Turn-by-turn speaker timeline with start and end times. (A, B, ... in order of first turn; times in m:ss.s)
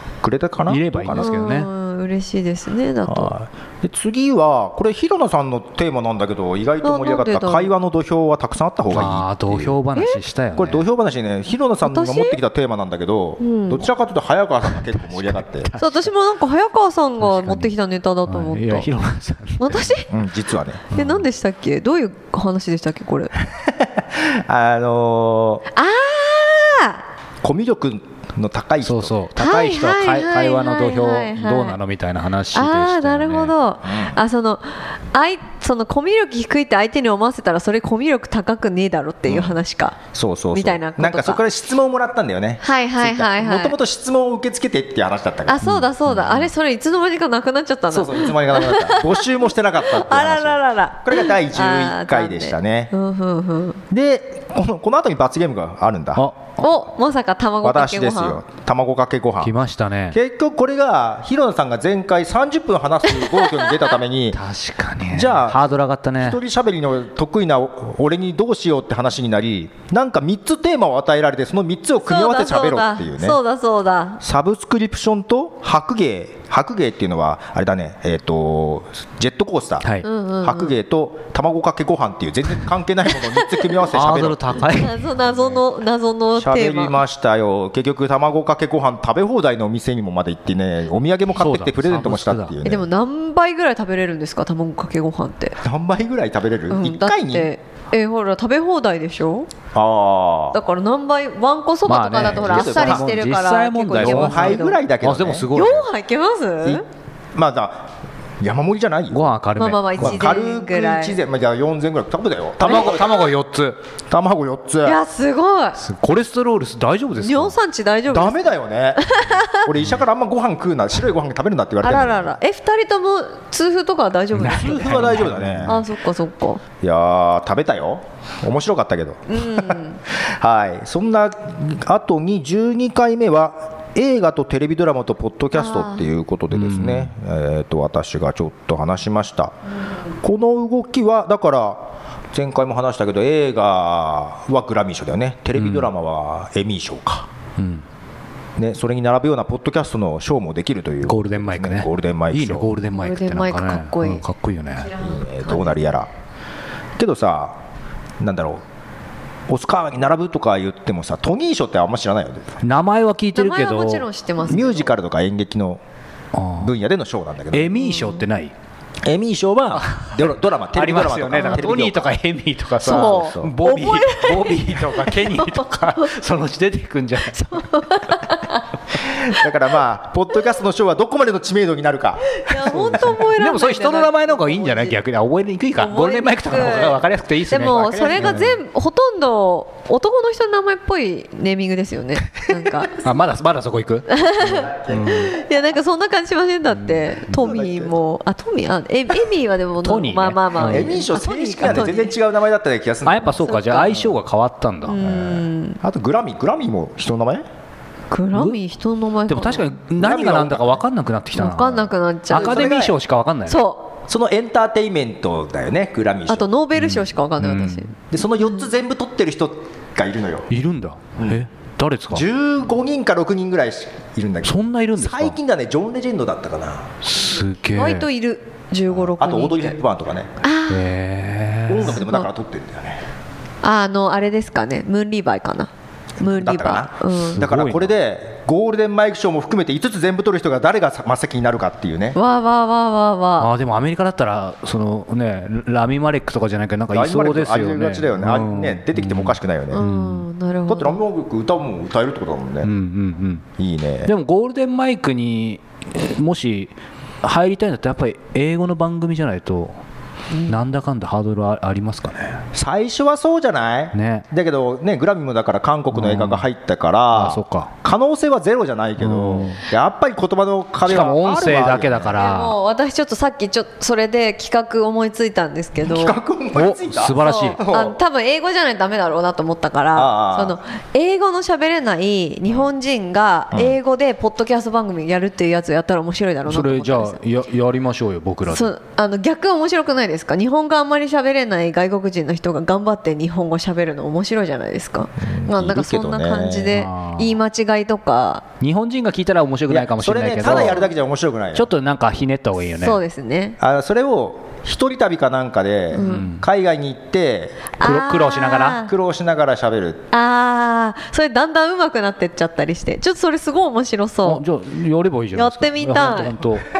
0:00.2-0:01.3 A
0:00.7-0:01.7 B
0:01.1-0:03.3 C
0:03.1-0:09.8 A
0:06.8-0:07.7 C
0:08.9-0:10.8 B
0:10.6-0:15.7 A
0:11.8-0:12.4 C
0:13.4-0:13.9 C
0:15.8-0:18.9 C
0:17.2-0:17.7 B
0:18.3-0:19.9 B
0:19.6-0:20.1 C
0:20.1-0:20.9 A
0:20.9-0:21.2 B
0:20.9-0:23.3 C
0:23.5-0:25.6 A
0:25.7-0:27.0 C
0:27.4-0:29.2 A
0:28.8-0:33.5 B
0:29.4-0:31.8 C
0:32.5-0:40.0 C
0:33.8-0:34.2 A
0:39.3-0:39.6 A
0:40.1-0:45.6 A
0:40.5-0:41.4 C
0:42.6-0:43.8 C
0:45.5-0:49.2 C
0:45.6-0:46.5 B
0:47.9-0:52.9 A
0:49.8-0:53.8 C
0:53.9-0:56.3 A
0:56.6-0:58.4 C
0:57.6-0:59.5 A
0:59.4-1:00.2 B
1:00.1-1:04.4 A
1:03.2-1:03.7 C
1:04.3-1:06.4 B
1:05.1-1:13.4 A
1:12.0-1:14.2 C
1:14.2-1:19.9 A
1:20.0-1:20.7 C
1:20.4-1:24.6 A
1:23.3-1:23.6 C
1:23.9-1:25.5 B
1:24.6-1:27.0 C
1:26.4-1:32.9 A
1:31.4-1:32.6 B
1:32.6-1:35.6 C
1:35.6-1:37.5 A
1:36.7-1:39.5 C
1:39.7-1:40.6 A
1:40.5-1:44.8 C
1:41.8-1:45.9 B
1:42.3-1:43.1 A
1:44.0-1:45.5 A
1:45.5-1:46.8 C
1:47.3-1:49.3 A
1:49.1-1:50.3 B
1:49.6-1:51.2 C
1:50.0-1:53.3 A
1:52.6-1:53.8 B
1:54.1-1:55.0 A
1:54.8-1:55.8 C
1:55.8-1:57.5 B
1:57.2-1:59.7 C
1:58.1-2:02.3 A
2:01.8-2:06.6 C
2:04.3-2:05.8 B
2:04.5-2:05.8 A
2:06.8-2:19.6 A
2:09.3-2:10.0 C
2:15.5-2:16.0 C
2:16.5-2:17.1 B
2:20.1-2:27.3 A
2:25.6-2:25.9 B
2:27.6-2:27.8 B
2:28.6-2:32.7 A
2:31.0-2:34.9 B
2:33.0-2:34.2 C
2:34.8-2:35.8 C
2:34.9-2:36.1 A
2:37.0-2:37.6 A
2:38.2-2:38.6 A
2:39.5-2:42.6 A
2:42.6-2:44.0 B
2:43.3-2:44.9 C
2:44.4-2:45.8 A
2:46.3-2:46.7 B
2:46.6-2:47.8 A
2:47.5-2:48.5 B
2:47.8-2:48.2 C
2:49.0-2:52.1 A
2:49.8-2:57.6 B
2:51.4-2:51.6 C
2:52.8-2:53.5 A
2:52.8-2:56.1 C
2:57.3-2:58.7 C
2:59.0-3:03.2 A
3:02.3-3:05.0 C
3:02.7-3:08.6 B
3:05.8-3:12.9 C
3:06.8-3:08.6 A
3:13.0-3:15.3 B
3:14.1-3:22.2 C
3:14.7-3:15.2 A
3:16.7-3:17.5 B
3:17.3-3:18.0 A
3:19.8-3:21.0 B
3:20.6-3:24.1 A
3:23.0-3:25.0 B
3:23.3-3:24.0 C
3:24.8-3:25.8 C
3:25.0-3:27.4 A
3:28.1-3:29.7 C
3:29.3-3:33.6 B
3:30.0-3:30.8 A
3:31.3-3:32.7 C
3:32.3-3:33.0 A
3:33.5-3:34.0 C
3:34.1-3:36.5 A
3:36.3-3:37.9 C
3:36.8-3:37.9 B
3:38.1-3:40.5 A
3:40.5-3:42.2 B
3:42.1-3:46.9 A
3:44.4-3:45.4 B
3:47.0-3:48.1 B
3:47.7-3:49.8 C
3:48.9-3:50.4 A
3:50.4-3:50.8 C
3:50.7-3:52.0 B
3:51.7-3:53.0 A
3:51.9-3:52.3 C
3:53.6-3:57.4 C
3:56.2-4:02.2 A
3:57.3-3:57.9 B
4:02.1-4:03.5 C
4:03.4-4:10.3 B
4:06.9-4:09.8 A
4:09.7-4:11.0 C
4:10.7-4:12.7 A
4:12.6-4:13.4 B
4:13.6-4:14.1 A
4:14.0-4:19.8 B
4:20.5-4:22.4 B
4:22.5-4:32.2 A
4:23.9-4:24.2 B
4:25.9-4:26.4 B
4:27.1-4:27.7 B
4:29.0-4:29.6 B
4:30.8-4:32.6 B
4:32.1-4:36.2 C
4:35.8-4:38.0 A
4:36.5-4:37.6 B
4:37.2-4:47.2 C
4:39.9-4:40.6 A
4:46.5-4:48.7 B
4:48.5-4:58.4 C
4:55.2-4:56.8 A
4:56.7-4:57.4 B
4:58.6-5:00.8 B
4:59.7-5:01.7 A
5:01.5-5:03.0 B
5:02.7-5:03.6 C
5:03.6-5:07.7 A
5:05.9-5:06.3 C
5:05.9-5:06.4 B
5:07.8-5:08.9 C
5:07.8-5:08.8 B
5:08.8-5:10.0 A
5:10.1-5:14.4 C
5:14.2-5:16.7 B
5:15.3-5:16.4 C